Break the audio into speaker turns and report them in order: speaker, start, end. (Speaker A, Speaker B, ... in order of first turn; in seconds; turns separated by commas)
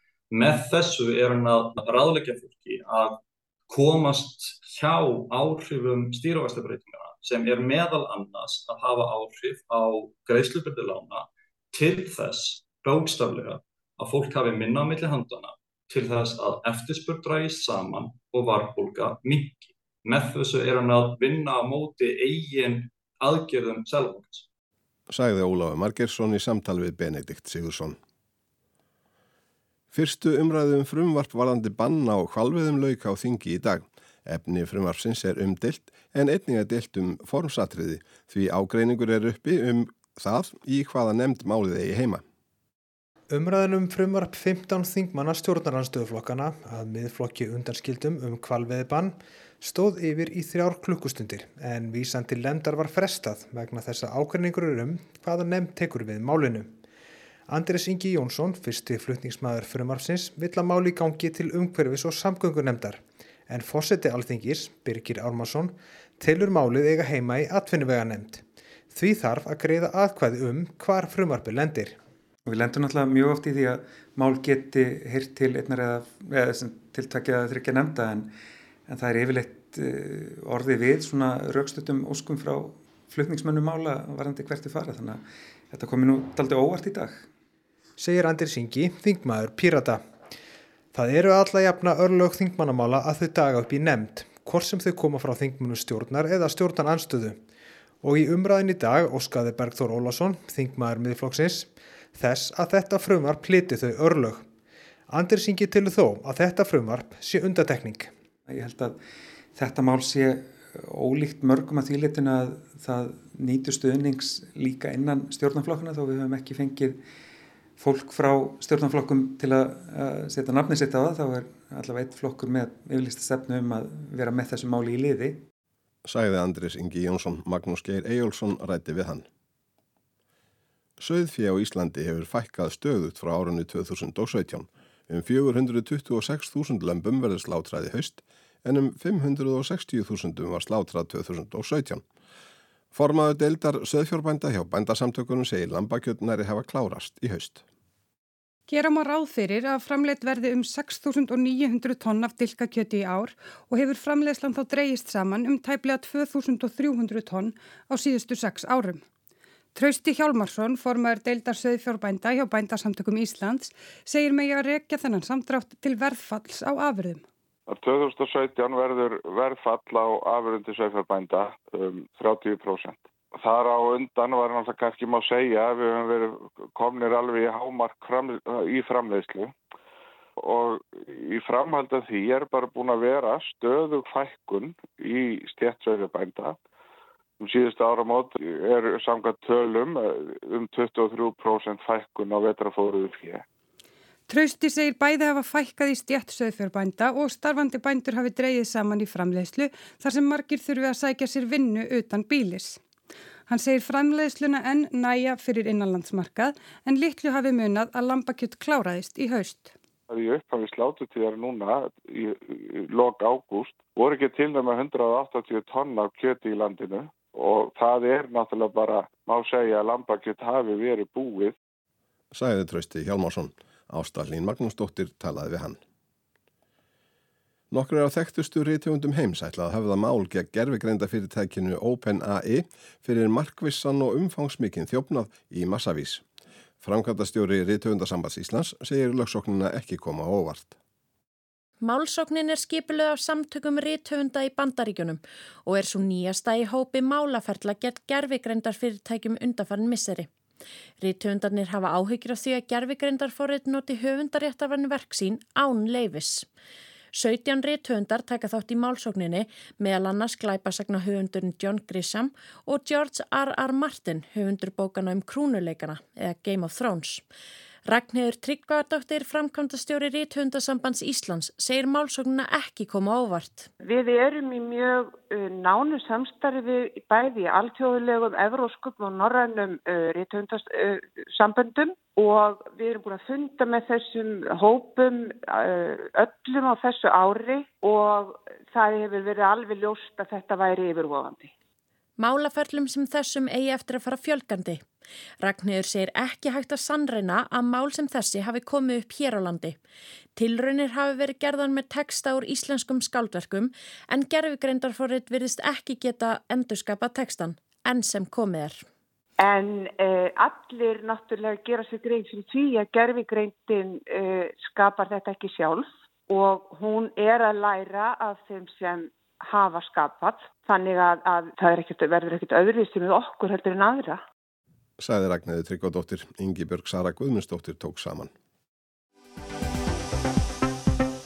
Speaker A: 0.3-24.4, Speaker B: 25.1-28.0, Speaker B: 29.9-42.2, Speaker C: 43.3-56.8, Speaker C: 57.5-72.0, Speaker D: 72.5-78.3, Speaker D: 78.9-87.3, Speaker C: 88.0-90.0, Speaker C: 90.9-97.4, Speaker C: 98.0-104.5, Speaker C: 105.1-108.1, Speaker D: 108.5-109.0, Speaker D: 109.5-117.0, Speaker D: 117.8-125.4, Speaker B: 126.0-129.2, Speaker B: 131.0-142.0, Speaker B: 142.9-147.6, Speaker E: 148.7-159.0, Speaker E: 159.7-167.2, Speaker F: 167.7-179.5, Speaker F: 180.4-186.6, Speaker F: 187.4-193.4, Speaker E: 194.3-202.8, Speaker E: 203.5-209.7, Speaker F: 210.1-221.5, Speaker B: 222.3-225.8, Speaker B: 227.7-236.2, Speaker B: 236.8-240.7, Speaker G: 241.8-250.3, Speaker G: 251.0-256.4, Speaker G: 257.1-267.2, Speaker G: 267.9-273.7, Speaker H: 273.8-291.5, Speaker G: 292.2-294.8, Speaker G: 295.4-299.8, Speaker G: 300.4-308.8, Speaker H: 309.4-324.2, Speaker B: 325.0-328.3